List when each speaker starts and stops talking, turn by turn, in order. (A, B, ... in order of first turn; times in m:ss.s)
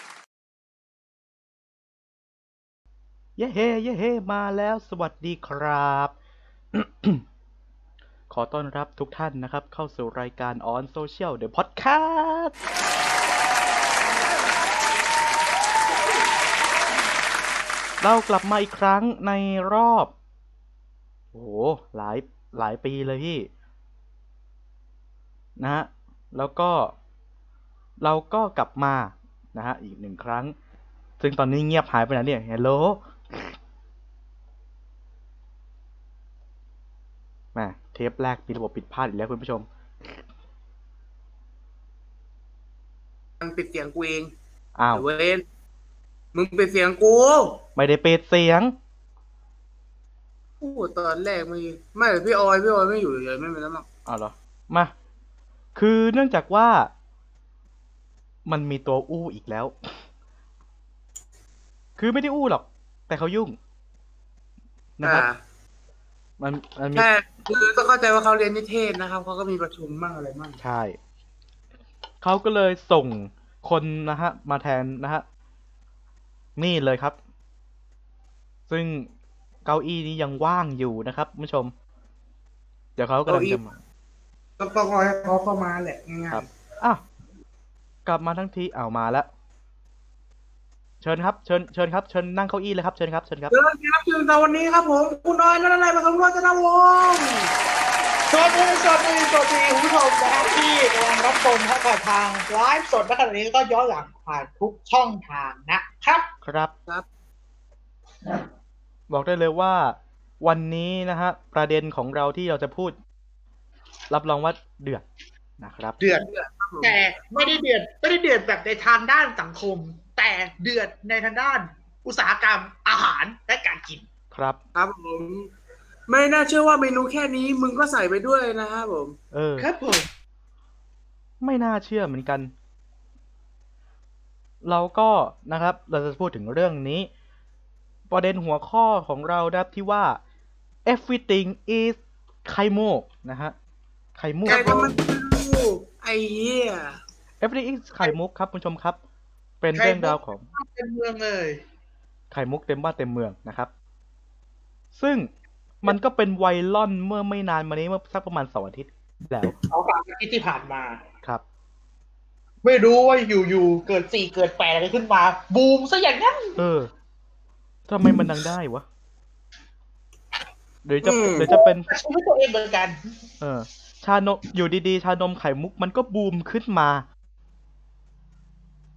0:03.4-0:06.1 A
0:06.7-0:07.2 A
0:08.3-0:12.5 A
0:18.0-0:20.1 A
0:21.3-0:23.5 A
0:25.6-0:26.9 A
0:28.0-0:30.5 A
0:31.2-0:33.6 A
0:37.6-0:39.7 A
0:43.4-0:44.3 B
0:44.8-0:45.0 A
0:44.9-0:45.4 B
0:46.3-0:47.6 B
0:47.8-0:48.7 A
0:50.6-0:53.8 B
0:54.0-0:54.9 A
0:55.8-0:56.9 A
0:58.5-1:00.0 A
1:02.0-1:03.6 A
1:05.0-1:05.3 A
1:05.0-1:05.4 B
1:06.4-1:07.1 A
1:07.0-1:10.6 B
1:10.6-1:11.0 A
1:12.2-1:15.2 A
1:16.6-1:17.2 A
1:18.7-1:19.1 A
1:19.6-1:21.7 A
1:23.0-1:23.8 A
1:23.3-1:23.6 B
1:24.6-1:26.4 B
1:26.3-1:27.0 A
1:28.0-1:29.3 A
1:31.0-1:33.6 A
1:33.5-1:37.5 B
1:38.3-1:46.3 C
1:46.4-1:46.7 A
1:49.1-1:53.0 A
1:54.1-1:55.0 A
1:55.6-1:56.0 A
1:56.0-1:56.3 C
1:56.2-1:57.6 B
1:56.8-2:04.0 C
2:04.3-2:04.6 A
2:04.7-2:05.5 B
2:06.1-2:09.2 B
2:09.3-2:09.7 A
2:09.6-2:10.1 C
2:11.4-2:12.5 A
2:14.6-2:17.1 A
2:18.1-2:20.2 A
2:20.8-2:23.5 A
2:24.2-2:24.9 A
2:24.5-2:24.8 C
2:24.5-2:27.0 B
2:27.4-2:29.0 A
2:29.6-2:30.5 A
2:29.8-2:31.6 C
2:32.3-2:33.7 A
2:34.9-2:35.3 A
2:35.8-2:39.6 A
2:39.6-2:41.0 C
2:42.6-2:46.6 C
2:46.6-2:46.9 A
2:47.9-2:48.8 A
2:50.8-2:51.9 A
2:51.0-2:51.6 B
2:51.9-2:53.0 C
2:53.4-2:57.0 A